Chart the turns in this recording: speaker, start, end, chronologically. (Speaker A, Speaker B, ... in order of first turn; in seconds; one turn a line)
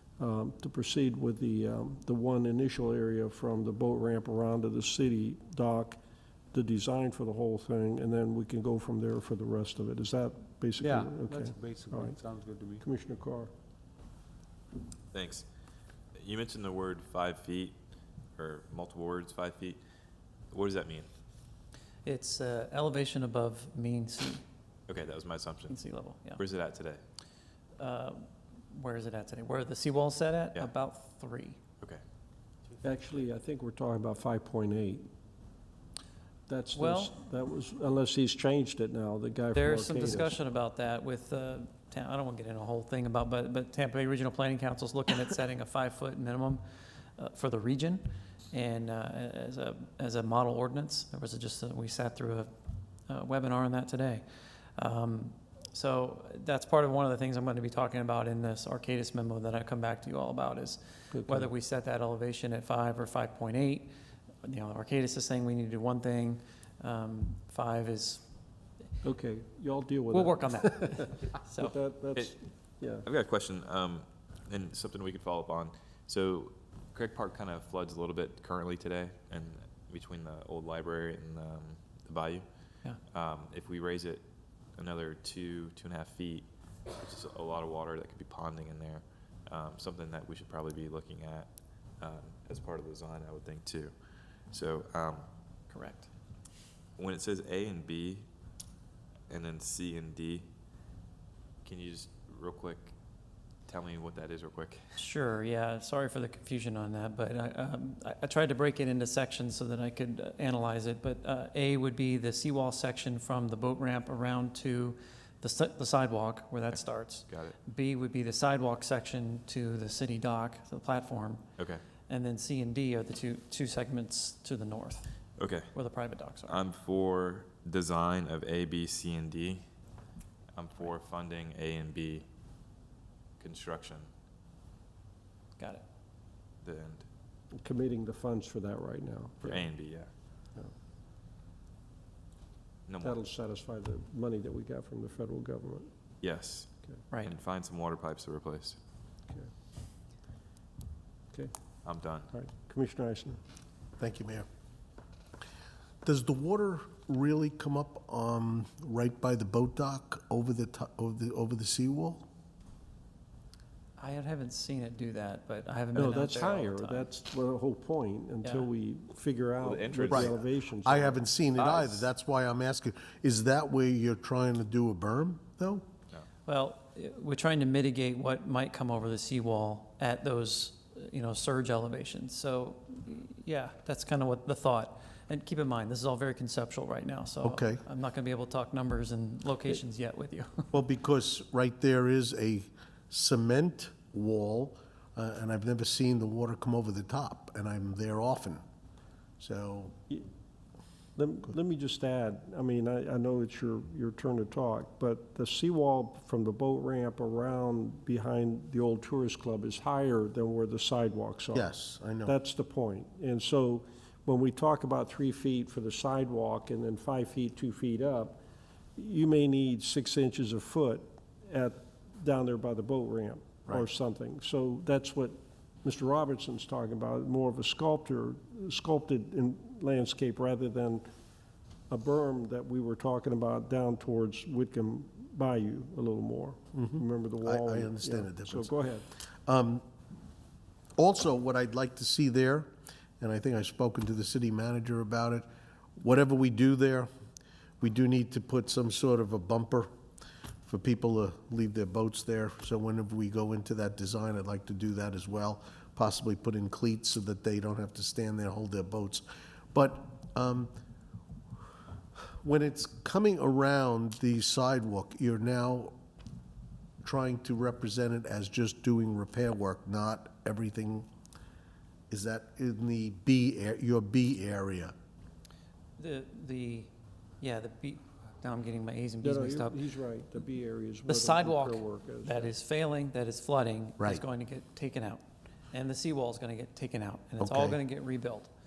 Speaker A: 0.2-6.0
Speaker A: 6.5-12.2
Speaker B: 10.8-12.8
Speaker A: 12.8-13.5
Speaker C: 15.1-15.5
Speaker C: 16.2-17.8
Speaker C: 18.4-19.8
Speaker C: 20.5-21.1
Speaker D: 22.1-24.4
Speaker C: 24.9-25.8
Speaker D: 25.7-26.4
Speaker C: 26.4-27.0
Speaker D: 27.8-31.6
Speaker A: 32.8-35.1
Speaker A: 36.5-40.4
Speaker D: 36.8-37.1
Speaker D: 39.5-46.6
Speaker D: 47.2-52.5
Speaker D: 53.1-54.2
Speaker D: 54.8-63.9
Speaker A: 61.1-61.5
Speaker D: 64.4-68.3
Speaker A: 69.0-73.1
Speaker D: 70.1-71.8
Speaker C: 72.9-82.5
Speaker C: 83.1-84.2
Speaker C: 84.8-93.9
Speaker C: 94.5-95.3
Speaker D: 95.7-96.1
Speaker C: 97.0-98.3
Speaker C: 99.3-100.5
Speaker C: 101.6-102.9
Speaker C: 103.7-105.0
Speaker D: 105.0-121.5
Speaker C: 116.7-117.6
Speaker C: 121.6-121.9
Speaker D: 122.0-125.1
Speaker C: 125.4-125.7
Speaker D: 125.7-126.6
Speaker C: 126.5-129.6
Speaker C: 130.6-132.3
Speaker C: 133.4-134.1
Speaker D: 135.6-135.8
Speaker C: 136.6-137.1
Speaker A: 137.6-139.7
Speaker C: 139.4-140.1
Speaker C: 142.9-143.2
Speaker A: 143.0-145.9
Speaker C: 146.2-146.7
Speaker C: 147.2-148.8
Speaker C: 151.8-152.3
Speaker A: 152.3-153.4
Speaker E: 154.0-154.5
Speaker E: 156.0-162.3
Speaker D: 164.0-167.1
Speaker A: 165.9-171.2
Speaker D: 168.4-168.7
Speaker C: 169.6-170.4
Speaker E: 170.1-175.8
Speaker C: 171.6-172.1
Speaker D: 176.5-190.7
Speaker E: 187.4-187.8
Speaker E: 190.7-198.6
Speaker E: 199.4-199.9
Speaker A: 201.2-211.7
Speaker E: 211.5-212.3
Speaker A: 212.2-218.4
Speaker A: 219.0-231.1
Speaker A: 231.9-239.1
Speaker E: 236.7-239.9
Speaker E: 241.0-245.5
Speaker E: 246.0-247.1
Speaker E: 247.8-249.9
Speaker E: 250.7-260.7
Speaker E: 262.4-265.9
Speaker E: 267.0-271.1
Speaker E: 272.1-274.9
Speaker D: 276.0-279.8
Speaker A: 279.2-282.5
Speaker D: 281.1-288.5
Speaker E: 284.0-284.2
Speaker E: 287.4-287.8